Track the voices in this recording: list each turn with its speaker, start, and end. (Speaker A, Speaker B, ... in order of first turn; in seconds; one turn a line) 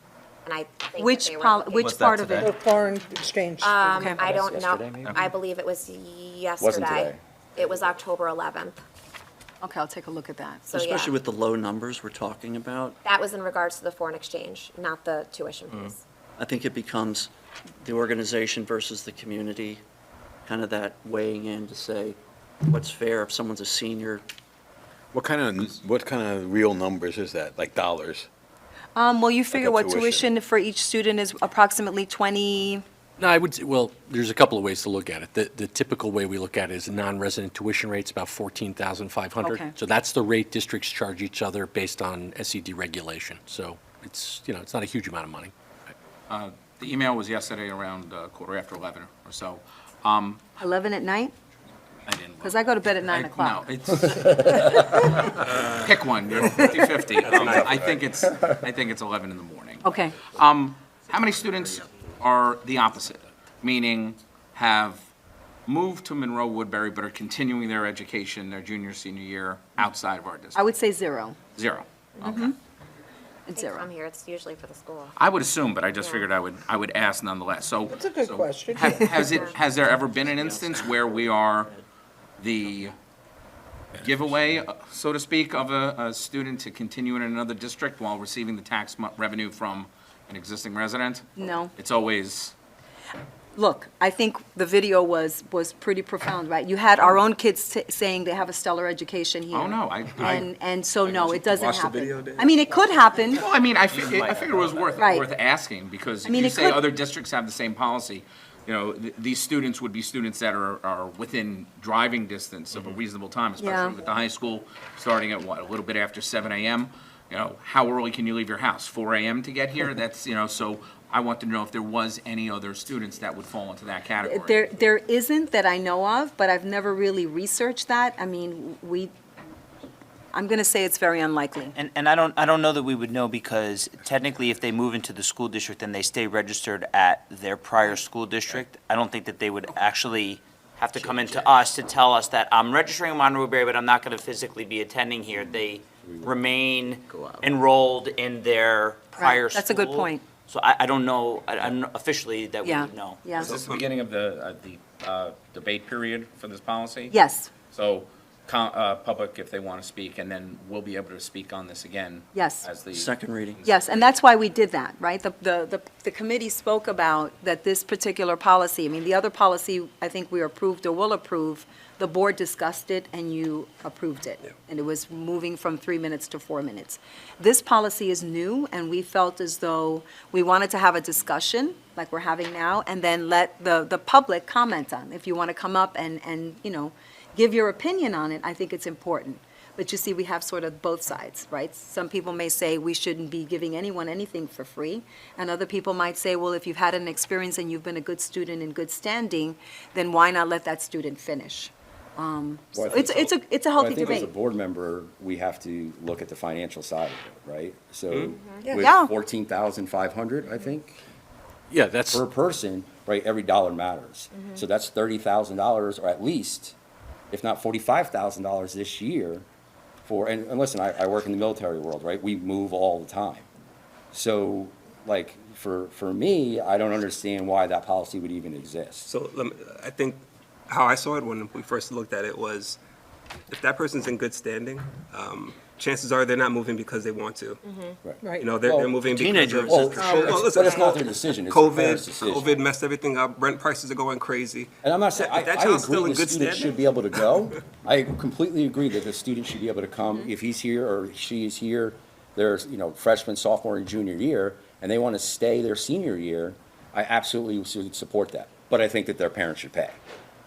Speaker A: 0.5-2.1
Speaker B: 1.0-2.5
Speaker C: 1.8-2.5
Speaker D: 2.4-4.2
Speaker A: 3.6-8.8
Speaker E: 4.3-5.3
Speaker E: 6.6-7.2
Speaker B: 9.6-10.7
Speaker A: 10.7-11.2
Speaker F: 10.8-13.0
Speaker A: 13.0-16.0
Speaker F: 16.4-17.3
Speaker F: 17.8-19.8
Speaker F: 20.5-24.2
Speaker G: 25.1-28.3
Speaker B: 29.0-32.8
Speaker G: 29.5-30.3
Speaker H: 33.2-45.5
Speaker B: 39.4-39.7
Speaker I: 46.3-50.5
Speaker B: 50.6-51.3
Speaker I: 52.1-65.0
Speaker B: 52.4-53.7
Speaker B: 56.4-56.9
Speaker G: 57.4-57.8
Speaker B: 59.8-60.2
Speaker I: 65.7-70.6
Speaker B: 70.5-71.4
Speaker I: 71.5-72.5
Speaker B: 72.2-72.5
Speaker B: 73.5-73.9
Speaker A: 73.5-75.1
Speaker I: 75.1-81.7
Speaker A: 76.0-76.3
Speaker D: 77.9-79.3
Speaker I: 82.4-83.0
Speaker I: 84.0-92.5
Speaker B: 91.4-91.7
Speaker B: 93.6-103.5
Speaker I: 99.5-100.5
Speaker J: 101.0-103.1
Speaker I: 103.3-124.7
Speaker C: 103.9-105.1
Speaker B: 105.0-105.3
Speaker B: 106.2-106.8
Speaker B: 113.6-114.0
Speaker B: 124.2-129.1
Speaker B: 130.3-131.8
Speaker C: 131.8-153.5
Speaker E: 145.4-146.3
Speaker E: 147.1-147.4
Speaker B: 149.2-150.2
Speaker B: 152.7-153.5
Speaker J: 153.4-153.8
Speaker I: 153.4-157.2
Speaker B: 157.1-157.5
Speaker I: 157.7-163.1
Speaker B: 162.3-162.7
Speaker F: 163.0-163.6
Speaker B: 163.7-204.3
Speaker E: 202.7-211.0
Speaker A: 208.3-208.7
Speaker B: 208.8-209.1
Speaker H: 211.7-212.2
Speaker E: 212.1-216.8
Speaker E: 217.3-219.4
Speaker E: 220.1-223.5
Speaker E: 224.1-229.1
Speaker J: 229.1-232.8
Speaker J: 233.5-237.6
Speaker A: 237.6-238.0
Speaker E: 238.0-239.0
Speaker D: 238.2-238.5
Speaker J: 238.4-247.4
Speaker F: 239.1-240.5
Speaker E: 239.7-242.5
Speaker A: 240.5-240.9
Speaker E: 244.8-260.0